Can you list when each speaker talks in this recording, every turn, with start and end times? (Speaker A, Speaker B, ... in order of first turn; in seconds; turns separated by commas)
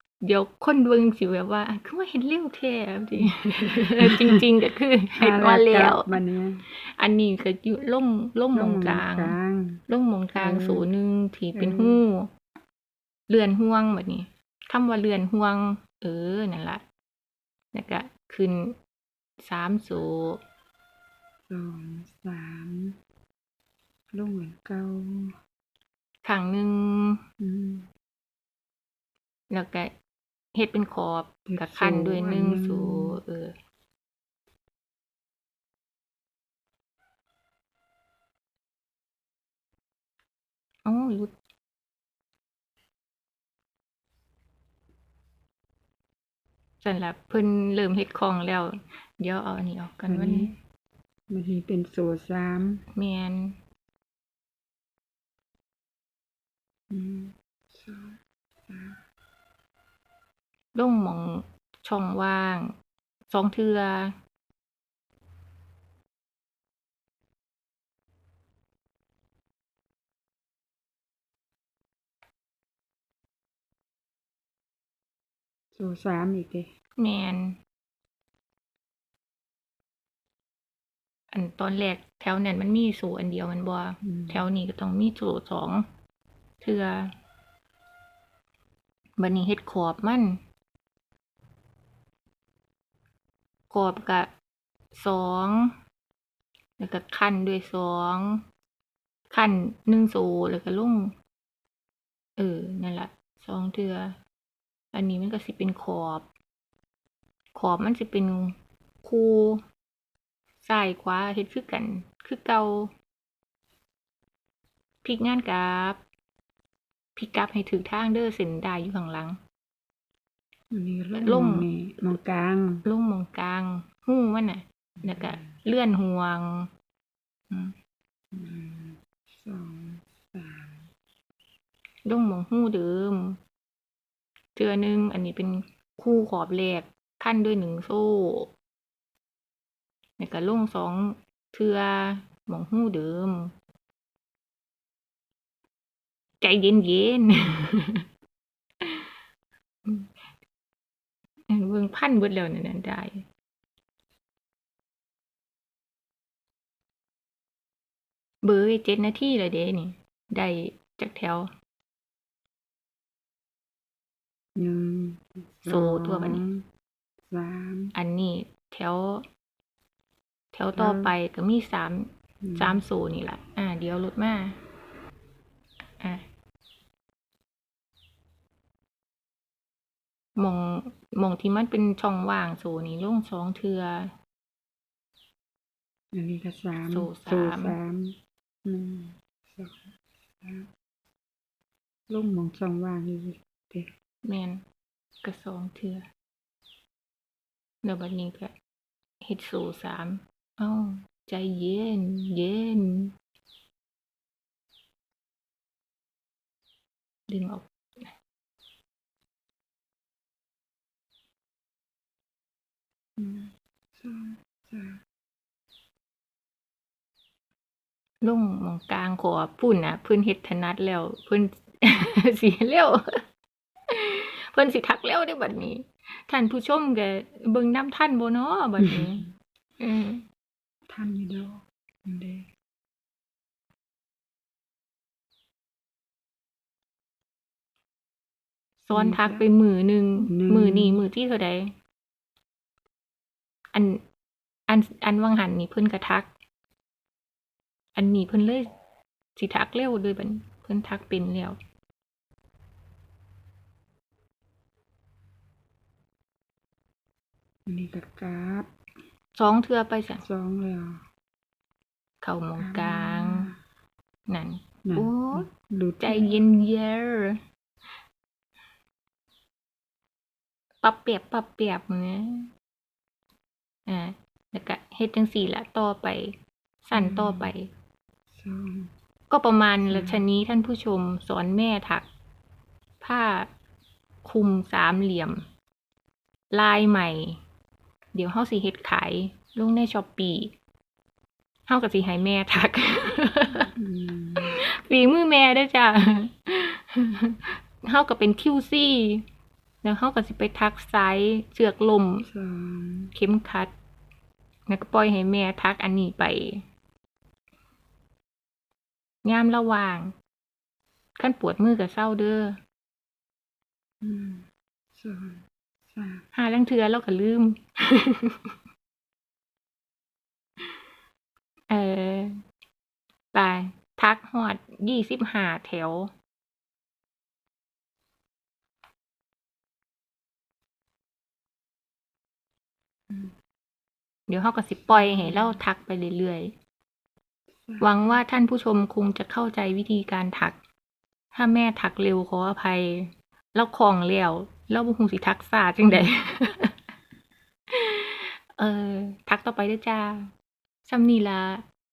Speaker A: 0.2-6.2, Speaker B: 3.2-4.5, Speaker B: 5.2-6.7, Speaker A: 6.7-9.4, Speaker B: 8.5-9.8, Speaker A: 9.9-12.3, Speaker B: 10.4-10.9, Speaker B: 11.6-12.0, Speaker A: 13.3-16.8, Speaker A: 17.7-18.8, Speaker A: 19.4-20.4, Speaker B: 21.5-23.0, Speaker B: 24.1-25.4, Speaker A: 26.2-27.2, Speaker B: 27.4-27.9, Speaker A: 29.5-29.9, Speaker A: 30.5-33.6, Speaker B: 31.5-33.2, Speaker A: 40.9-41.3, Speaker A: 46.8-50.5, Speaker B: 50.1-50.5, Speaker B: 51.3-52.8, Speaker A: 52.9-53.5, Speaker B: 56.9-59.0, Speaker A: 60.8-62.7, Speaker A: 63.3-64.2, Speaker B: 75.7-76.7, Speaker A: 77.0-77.6, Speaker A: 81.3-85.8, Speaker B: 84.0-84.5, Speaker A: 86.6-87.1, Speaker A: 89.2-90.4, Speaker A: 93.7-94.3, Speaker A: 94.9-95.7, Speaker A: 96.8-98.4, Speaker A: 99.3-101.1, Speaker A: 102.4-104.2, Speaker A: 104.9-106.3, Speaker A: 107.5-109.6, Speaker A: 110.6-112.9, Speaker A: 115.0-116.0, Speaker A: 117.2-119.4, Speaker B: 120.7-122.8, Speaker A: 121.2-121.7, Speaker A: 122.8-126.7, Speaker B: 125.0-125.5, Speaker B: 128.3-130.9, Speaker A: 132.1-133.4, Speaker A: 134.6-138.5, Speaker A: 140.2-143.5, Speaker A: 146.4-148.1, Speaker A: 148.8-149.1, Speaker A: 149.8-150.1, Speaker A: 151.5-153.3, Speaker A: 158.4-161.5, Speaker B: 164.6-166.7, Speaker A: 165.7-166.4, Speaker B: 167.3-167.9, Speaker A: 167.9-169.2, Speaker A: 170.5-174.6, Speaker B: 170.8-171.1, Speaker B: 172.4-172.8, Speaker A: 180.4-184.1, Speaker B: 186.1-190.7, Speaker A: 186.9-187.8, Speaker B: 192.1-193.9, Speaker A: 194.2-194.6, Speaker A: 195.2-196.1, Speaker A: 197.8-198.5, Speaker A: 199.2-203.1, Speaker A: 207.3-207.7, Speaker B: 213.2-215.0, Speaker A: 218.2-223.2, Speaker A: 223.9-229.3, Speaker A: 229.8-230.2, Speaker B: 230.9-232.5, Speaker A: 238.9-241.7, Speaker B: 238.9-239.5, Speaker B: 240.2-241.0, Speaker A: 243.7-244.0, Speaker A: 244.7-246.3, Speaker A: 248.0-248.7, Speaker A: 249.4-251.6, Speaker B: 257.7-258.7, Speaker A: 259.4-260.2, Speaker B: 260.2-261.0, Speaker A: 262.2-263.5, Speaker B: 262.6-263.6, Speaker A: 264.3-265.5, Speaker B: 264.8-266.4, Speaker A: 266.0-267.4, Speaker A: 270.8-272.5, Speaker A: 273.9-277.7, Speaker B: 276.9-277.5, Speaker B: 278.3-278.9, Speaker A: 279.3-282.1, Speaker B: 279.9-280.2, Speaker A: 283.0-283.5, Speaker A: 284.2-285.4, Speaker A: 286.5-287.4, Speaker A: 288.1-290.5, Speaker A: 291.7-293.7, Speaker B: 293.7-294.6, Speaker A: 294.4-299.2, Speaker A: 299.8-302.3, Speaker B: 302.3-303.1, Speaker A: 303.1-303.7, Speaker A: 304.7-306.6, Speaker A: 309.2-310.1, Speaker A: 311.2-312.6, Speaker B: 314.0-316.2, Speaker A: 316.3-318.5, Speaker A: 321.7-322.4, Speaker A: 323.3-326.1, Speaker A: 334.3-336.5, Speaker B: 334.8-335.6, Speaker B: 337.6-338.2, Speaker A: 337.8-340.6, Speaker A: 341.3-346.7, Speaker A: 347.7-350.3, Speaker A: 350.9-351.6